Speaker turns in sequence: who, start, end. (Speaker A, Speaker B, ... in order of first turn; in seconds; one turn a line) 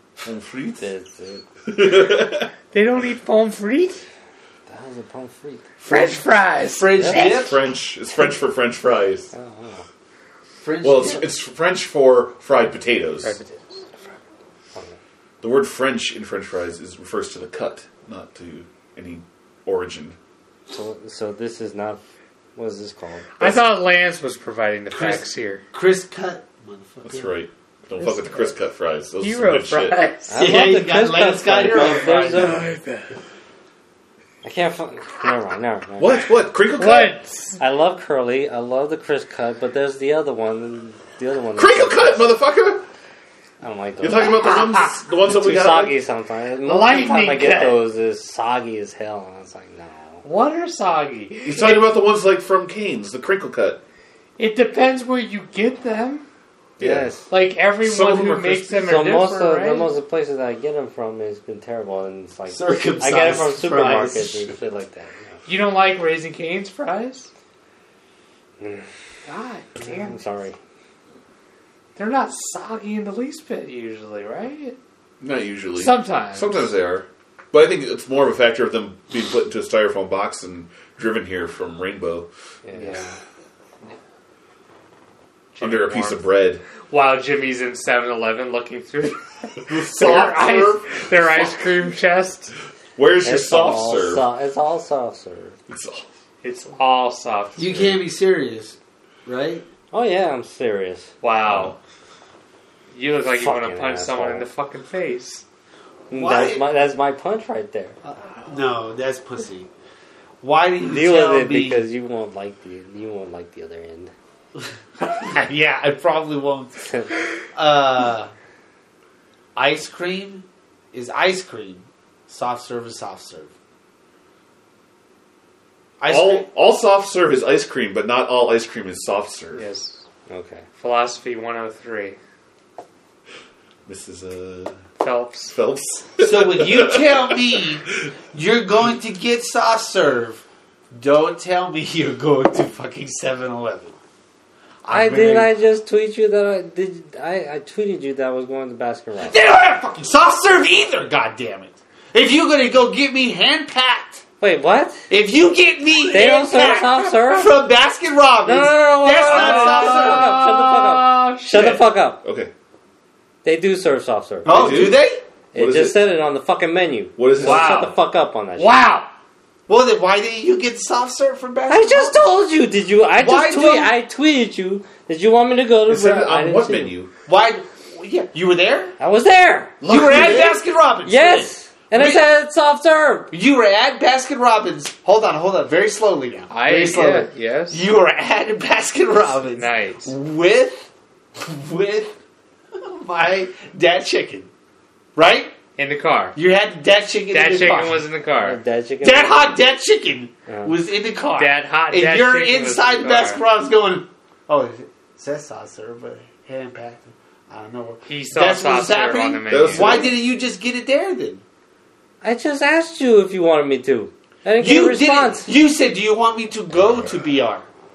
Speaker A: 0.2-0.9
Speaker B: 0.8-1.4
Speaker A: 1.7-2.5
Speaker C: 2.7-4.0
Speaker B: 4.7-5.7
Speaker C: 5.8-7.4
Speaker D: 6.7-7.6
Speaker B: 7.0-7.4
Speaker A: 7.2-9.3
Speaker B: 9.3-9.8
Speaker D: 10.6-11.3
Speaker A: 10.8-13.4
Speaker C: 13.2-13.9
Speaker A: 15.4-20.2
Speaker B: 20.7-22.0
Speaker B: 22.6-23.3
Speaker C: 23.4-25.6
Speaker D: 24.9-27.3
Speaker A: 27.0-30.0
Speaker C: 28.0-28.5
Speaker C: 29.2-30.6
Speaker B: 30.3-32.7
Speaker D: 30.4-32.7
Speaker C: 31.7-33.2
Speaker B: 34.4-36.2
Speaker A: 36.0-37.2
Speaker C: 36.8-37.6
Speaker B: 37.6-42.3
Speaker A: 41.5-42.9
Speaker B: 43.6-44.4
Speaker A: 44.0-46.0
Speaker C: 44.2-45.0
Speaker B: 45.2-50.2
Speaker C: 46.6-47.8
Speaker C: 50.2-51.9
Speaker A: 51.5-53.8
Speaker C: 54.4-56.3
Speaker A: 56.8-57.1
Speaker B: 56.8-57.3
Speaker C: 57.3-59.9
Speaker A: 57.8-58.9
Speaker B: 58.9-65.4
Speaker D: 62.5-64.5
Speaker C: 65.5-67.3
Speaker B: 68.6-68.9
Speaker C: 69.3-70.2
Speaker B: 69.8-70.6
Speaker C: 72.0-74.8
Speaker A: 75.2-82.3
Speaker C: 75.8-76.6
Speaker B: 82.7-83.1
Speaker C: 82.7-83.2
Speaker C: 85.5-86.2
Speaker A: 85.6-86.6
Speaker C: 86.9-92.5
Speaker A: 89.7-91.5
Speaker A: 93.0-94.3
Speaker B: 93.2-95.6
Speaker A: 95.7-96.1
Speaker C: 96.4-97.9
Speaker D: 97.6-99.7
Speaker B: 99.9-101.1
Speaker C: 101.2-101.8
Speaker A: 101.4-101.8
Speaker C: 102.9-105.4
Speaker B: 103.2-104.5
Speaker B: 106.1-108.0
Speaker D: 106.1-106.7
Speaker D: 108.0-109.7
Speaker D: 110.4-111.9
Speaker B: 110.9-114.1
Speaker D: 114.6-116.9
Speaker D: 117.5-118.3
Speaker D: 119.6-123.5
Speaker D: 126.0-126.5
Speaker A: 126.1-129.7
Speaker C: 129.6-130.1
Speaker B: 130.3-130.7
Speaker C: 130.8-132.2
Speaker A: 133.9-134.8
Speaker C: 135.0-135.6
Speaker A: 135.5-138.1
Speaker D: 136.2-144.0
Speaker D: 144.8-145.5
Speaker B: 144.9-149.4
Speaker D: 149.2-154.2
Speaker B: 154.4-155.0
Speaker D: 155.1-160.4
Speaker B: 156.1-157.6
Speaker B: 158.5-162.2
Speaker C: 159.3-161.9
Speaker A: 162.2-162.5
Speaker B: 163.4-165.0
Speaker D: 164.4-165.2
Speaker A: 164.5-166.0
Speaker B: 165.5-168.8
Speaker A: 167.2-167.9
Speaker C: 167.4-168.0
Speaker C: 168.6-169.1
Speaker D: 169.7-172.4
Speaker B: 171.7-176.9
Speaker D: 173.2-173.9
Speaker A: 175.9-177.1
Speaker D: 177.3-179.0
Speaker B: 179.0-180.4
Speaker D: 179.8-182.3
Speaker A: 179.9-180.5
Speaker B: 181.1-183.3
Speaker D: 183.3-192.2
Speaker C: 186.5-187.8
Speaker C: 189.6-190.1
Speaker D: 192.7-194.5
Speaker D: 195.2-195.6
Speaker C: 195.8-196.4
Speaker D: 196.3-198.1
Speaker C: 197.3-198.6
Speaker B: 198.4-199.6
Speaker D: 199.0-211.4
Speaker B: 200.5-200.7
Speaker C: 201.4-203.4
Speaker C: 208.1-210.1
Speaker A: 209.5-210.1
Speaker B: 212.2-215.5
Speaker D: 214.6-217.7